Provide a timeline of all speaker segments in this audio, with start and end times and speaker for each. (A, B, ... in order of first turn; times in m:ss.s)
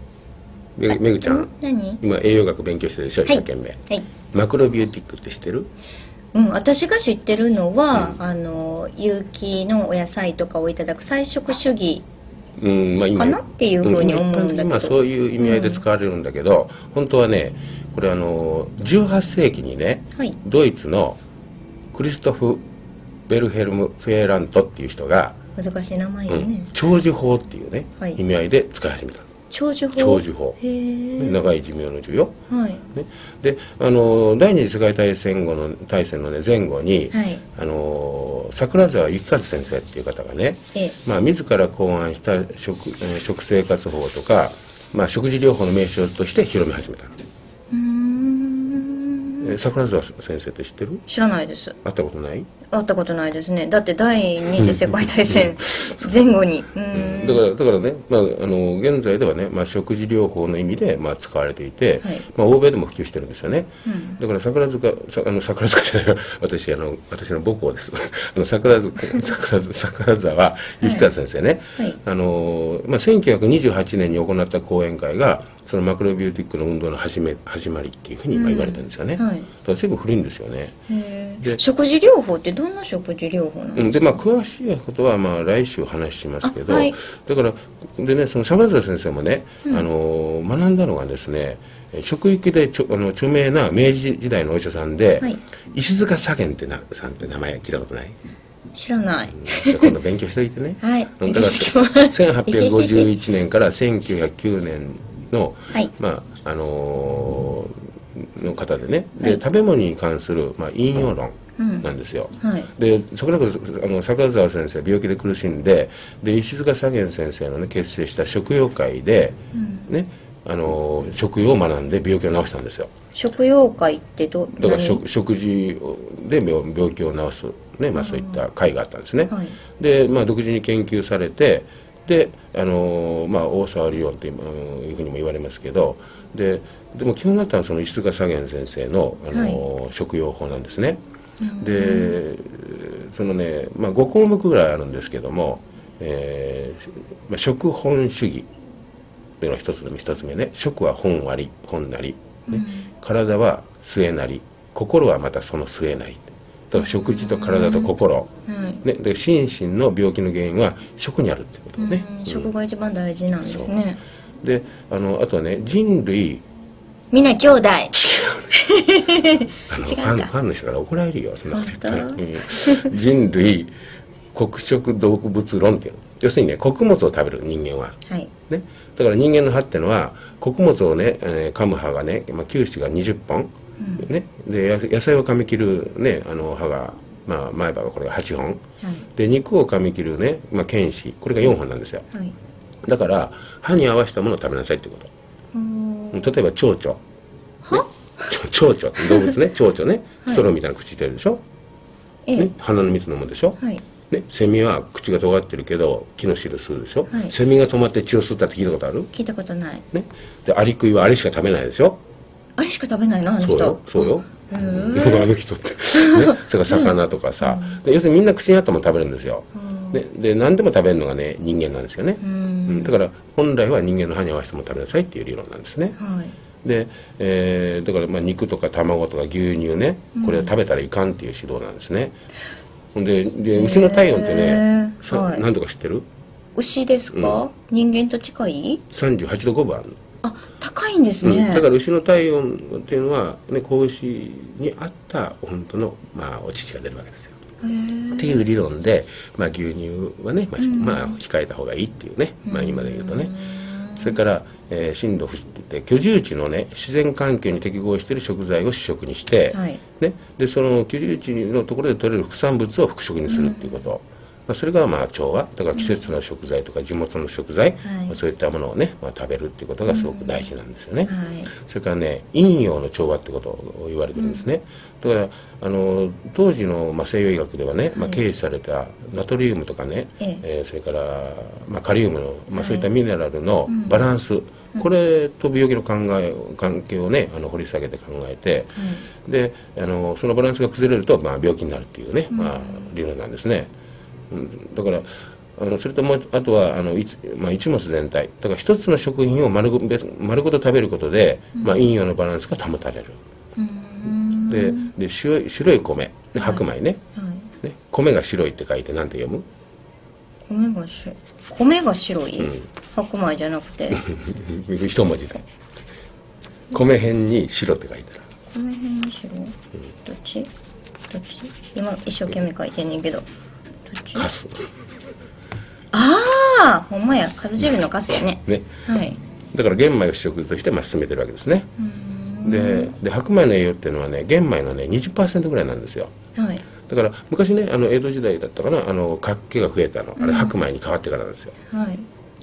0:00.8-0:05.7 A
0:00.9-0:02.0 B
0:03.2-0:04.0 B
0:06.3-0:12.0 B
0:07.9-0:08.2 A
0:12.6-0:21.2 A
0:13.1-0:15.8 B
0:21.9-0:22.6 A
0:23.3-0:25.4 A
0:25.6-0:26.7 B
0:26.3-0:29.3 A
0:29.5-0:31.4 B
0:30.0-0:30.6 A
0:31.1-0:32.3 A
0:32.5-0:32.8 B
0:32.9-0:47.2 A
0:37.1-0:37.4 B
0:47.7-0:49.6 B
0:49.4-0:51.0 A
0:51.1-0:51.8 B
0:51.8-0:52.5 A
0:52.7-0:57.4 B
0:54.5-0:56.0 A
0:56.9-1:20.7 A
1:03.8-1:04.2 B
1:10.8-1:11.1 B
1:18.3-1:19.5 B
1:20.9-1:24.2 B
1:23.8-1:38.2 A
1:26.4-1:26.9 B
1:38.7-1:39.9 B
1:39.3-1:59.4 A
1:40.8-1:43.1 B
1:51.6-1:51.9 B
1:52.4-1:52.7 B
1:59.5-1:59.9 B
1:59.9-2:02.9 A
2:03.1-2:05.0 B
2:04.6-2:21.0 A
2:07.9-2:08.4 B
2:09.3-2:09.5 B
2:19.3-2:19.6 B
2:21.4-2:22.2 B
2:21.6-2:28.5 A
2:29.4-2:38.3 A
2:32.5-2:32.9 B
2:36.8-2:37.9 B
2:38.5-2:38.8 B
2:38.8-2:42.5 A
2:41.8-2:44.0 B
2:43.4-2:43.7 A
2:44.4-2:46.4 A
2:47.1-2:47.9 B
2:47.9-2:48.6 A
2:48.5-2:50.3 B
2:49.6-2:53.7 A
2:51.5-2:52.9 B
2:54.3-2:58.0 A
2:58.5-3:08.6 A
3:03.8-3:04.1 B
3:09.1-3:12.0 A
3:12.8-3:15.1 A
3:15.5-3:16.4 B
3:16.1-3:17.0 A
3:17.6-3:18.3 B
3:17.7-3:21.4 A
3:19.0-3:19.3 B
3:22.3-3:22.5 B
3:22.4-3:23.6 A
3:24.1-3:29.1 A
3:29.1-3:29.8 B
3:29.9-3:32.0 A
3:32.6-3:35.3 B
3:33.4-3:46.0 A
3:35.9-3:37.8 B
3:39.5-3:40.0 B
3:42.2-3:42.9 B
3:46.0-3:46.3 B
3:46.6-3:52.2 A
3:50.2-3:50.5 B
3:52.9-3:56.1 A
3:53.5-3:55.4 B
3:56.6-3:58.8 B
3:57.1-3:57.4 A
3:58.9-4:00.0 A
4:00.2-4:01.7 B
4:01.2-4:07.3 A
4:07.6-4:08.4 B
4:08.1-4:13.4 A
4:10.6-4:11.2 B
4:12.4-4:14.2 B
4:13.9-4:53.7 A
4:19.5-4:19.8 B
4:23.3-4:23.7 B
4:27.8-4:28.2 B
4:29.9-4:30.5 B
4:31.1-4:31.5 B
4:34.2-4:34.4 B
4:37.9-4:38.2 B
4:42.6-4:42.9 B
4:43.7-4:44.0 B
4:48.8-4:49.1 B
4:52.3-4:52.8 B
4:54.3-5:03.2 A
5:01.6-5:01.8 B
5:03.6-5:04.9 B
5:04.4-5:07.0 A
5:06.3-5:06.6 B
5:07.2-5:07.5 B
5:07.6-5:09.4 A
5:10.4-5:14.0 B
5:12.4-5:12.7 A
5:13.9-5:15.4 A
5:16.7-5:18.2 A
5:18.5-5:19.5 B
5:20.0-5:20.5 B
5:21.1-5:23.2 B
5:23.8-5:24.3 B
5:24.1-5:24.7 A
5:25.9-5:29.2 B
5:29.5-5:31.7 A
5:31.8-5:32.9 B
5:32.4-5:36.1 A
5:36.4-5:36.6 B
5:36.8-5:41.5 A
5:40.2-5:40.5 B
5:41.7-5:42.1 B